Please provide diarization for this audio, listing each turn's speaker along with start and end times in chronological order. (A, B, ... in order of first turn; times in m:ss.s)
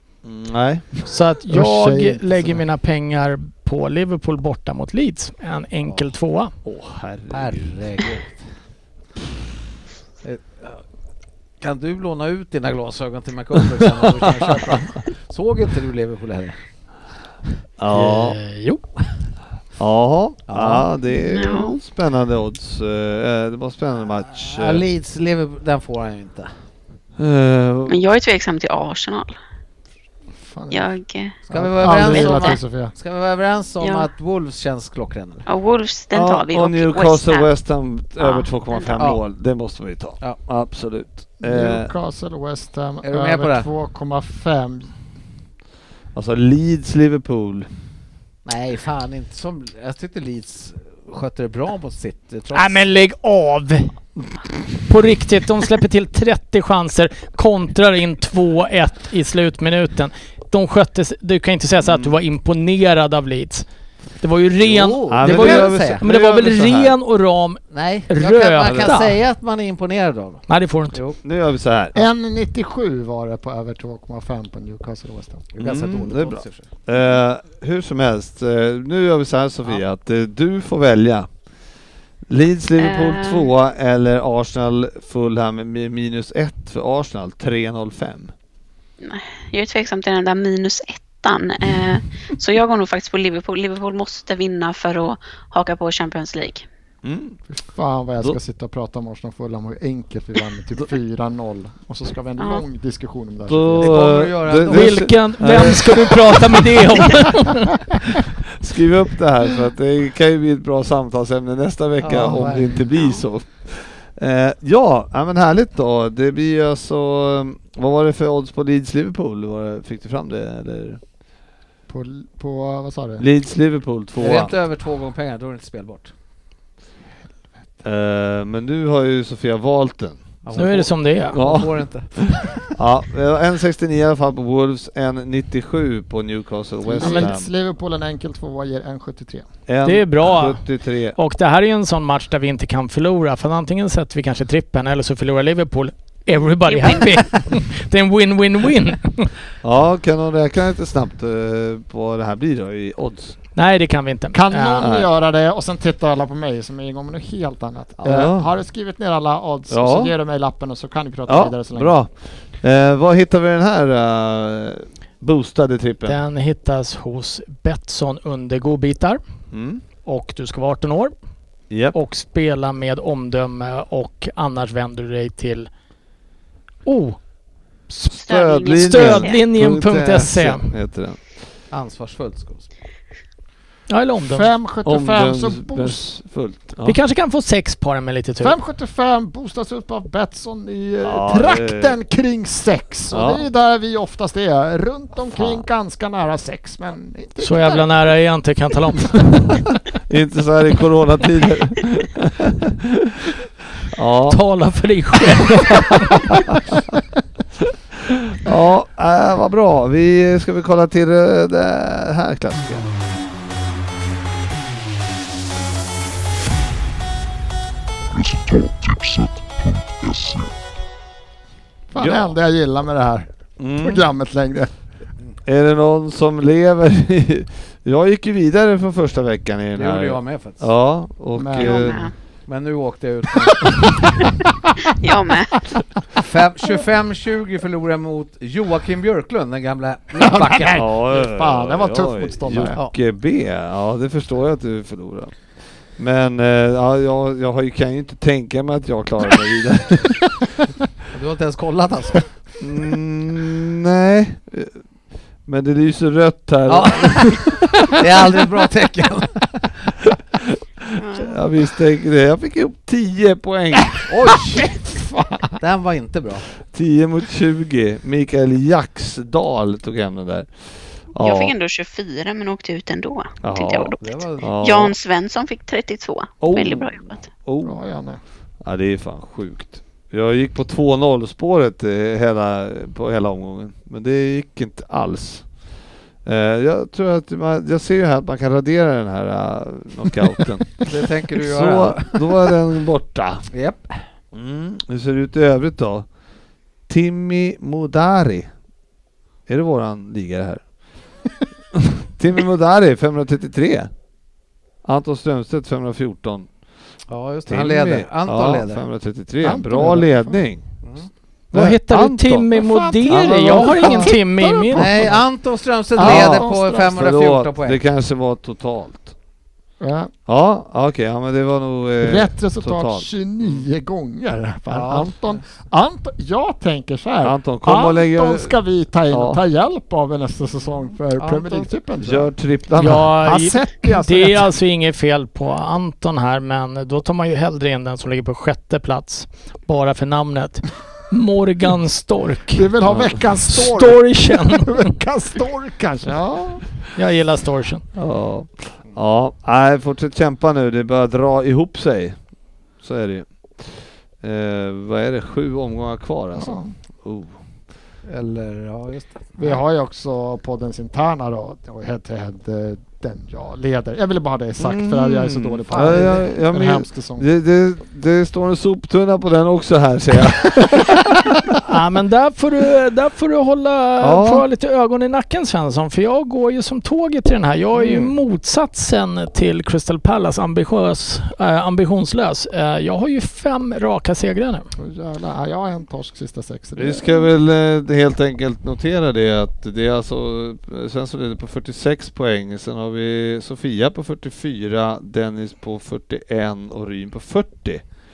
0:00.2-0:00.9 A
0:01.0-0:06.5 B
0:01.5-0:02.6 C
0:06.6-0:07.8 A
0:07.3-0:08.4 D
0:10.2-0:10.8 D
0:11.6-0:16.6 D
0:14.0-0:14.8 A
0:17.8-0:18.4 A
0:17.9-0:18.9 B
0:19.8-0:24.8 A
0:20.5-0:20.9 D
0:21.1-0:21.8 E
0:24.3-0:26.5 D
0:27.2-0:28.0 A
0:27.9-0:29.3 E
0:30.4-0:30.9 C
0:30.7-0:31.4 E
0:31.5-0:35.4 D
0:31.5-0:32.9 C
0:32.0-0:32.6 E
0:33.8-0:34.1 E
0:35.5-0:37.5 E
0:36.1-0:41.9 A
0:38.2-0:39.0 E
0:39.0-0:39.2 D
0:41.4-0:44.9 C
0:43.0-0:43.7 D
0:46.1-0:47.7 A
0:48.4-0:52.8 D
0:52.5-0:54.0 B
0:54.8-1:03.6 B
1:01.8-1:02.2 A
1:04.2-1:09.2 B
1:04.6-1:06.0 D
1:05.1-1:07.0 A
1:07.7-1:11.2 D
1:10.5-1:11.0 B
1:11.2-1:12.0 A
1:11.9-1:15.5 C
1:15.5-1:16.7 D
1:15.6-1:21.3 A
1:22.3-1:28.3 A
1:22.8-1:23.5 E
1:29.0-1:36.6 E
1:37.0-1:37.4 A
1:37.5-1:44.0 C
1:42.4-1:42.6 E
1:43.5-1:46.1 A
1:43.8-1:45.1 D
1:44.7-1:47.8 B
1:48.5-2:01.0 A
1:52.0-1:52.8 D
2:01.9-2:03.2 C
2:03.2-2:04.5 A
2:04.2-2:06.1 D
2:07.8-2:11.8 A
2:10.4-2:12.7 D
2:10.5-2:11.4 B
2:12.7-2:17.5 A
2:16.8-2:19.5 C
2:17.0-2:17.3 B
2:19.7-2:21.2 A
2:19.8-2:20.6 B
2:21.1-2:29.3 B
2:26.6-2:27.2 E
2:29.6-2:33.4 A
2:33.5-2:34.9 B
2:34.3-2:42.0 C
2:34.8-2:35.1 A
2:38.0-2:38.5 A
2:39.7-2:40.1 A
2:41.3-2:46.2 A
2:46.0-2:49.2 B
2:49.5-2:49.8 A
2:50.0-2:51.1 B
2:51.7-2:52.0 A
2:51.9-2:55.7 B
2:56.8-2:57.2 B
2:58.1-3:01.3 A
2:58.2-2:59.4 E
2:58.7-3:00.7 B
3:01.7-3:02.7 D
3:03.9-3:04.5 B
3:04.3-3:06.0 C
3:04.8-3:07.0 A
3:06.8-3:08.6 B
3:08.4-3:17.8 C
3:11.0-3:12.0 A
3:13.1-3:13.4 A
3:15.3-3:15.6 A
3:17.4-3:19.2 B
3:20.1-3:23.3 A
3:23.9-3:24.4 A
3:24.3-3:26.3 B
3:28.1-3:32.9 A
3:41.9-3:44.7 C
3:42.0-3:42.3 A
3:43.6-3:44.0 A
3:45.4-3:52.1 A
3:49.7-3:50.7 D
3:51.3-3:52.0 C
3:51.6-3:52.1 E
3:52.5-3:53.9 D
3:53.5-3:54.0 C
3:55.0-3:55.6 E
3:56.2-4:00.8 D
4:00.2-4:02.8 C
4:00.7-4:10.2 A
4:11.1-4:12.2 D
4:12.6-4:14.8 A
4:15.4-4:18.4 A
4:16.7-4:19.9 D
4:20.1-4:24.0 A
4:21.0-4:21.4 E
4:24.1-4:24.7 D
4:24.6-4:25.6 C
4:25.6-4:26.4 D
4:26.7-4:30.5 A
4:31.1-4:31.5 A
4:31.2-4:37.2 E
4:33.4-4:35.0 A
4:34.0-4:34.5 D
4:36.4-4:37.8 A
4:37.6-4:38.2 C
4:38.6-4:45.5 A
4:46.2-4:53.5 A
4:50.8-4:52.4 D
4:53.5-4:54.0 D
4:54.3-4:56.1 A
4:56.9-4:58.5 A
4:59.5-5:00.7 A
5:01.7-5:03.9 A
5:04.8-5:06.5 A
5:07.1-5:08.8 D
5:07.5-5:10.7 A
5:09.4-5:10.4 C
5:10.8-5:11.1 D
5:11.5-5:14.9 B
5:11.5-5:14.2 A
5:12.6-5:15.2 C
5:14.7-5:17.8 D
5:15.9-5:17.0 C
5:16.0-5:19.1 A
5:19.8-5:20.1 C
5:20.3-5:23.7 A
5:22.0-5:32.3 C
5:24.7-5:25.4 D
5:27.2-5:28.6 A
5:29.1-5:29.4 A
5:31.2-5:31.7 D
5:32.0-5:33.2 A
5:32.8-5:42.6 B
5:33.2-5:34.5 C
5:42.5-5:46.7 C
5:42.8-5:43.3 A
5:43.5-5:44.9 B
5:46.9-5:47.8 B
5:47.9-5:52.2 A
5:52.8-5:57.3 A
5:56.4-5:56.7 C
5:58.1-5:59.6 D
5:59.4-6:07.3 C
6:04.6-6:11.4 A
6:05.7-6:06.2 D
6:11.6-6:24.6 B
6:14.0-6:14.4 A
6:17.8-6:18.1 A
6:24.8-6:27.3 C
6:26.8-6:37.8 A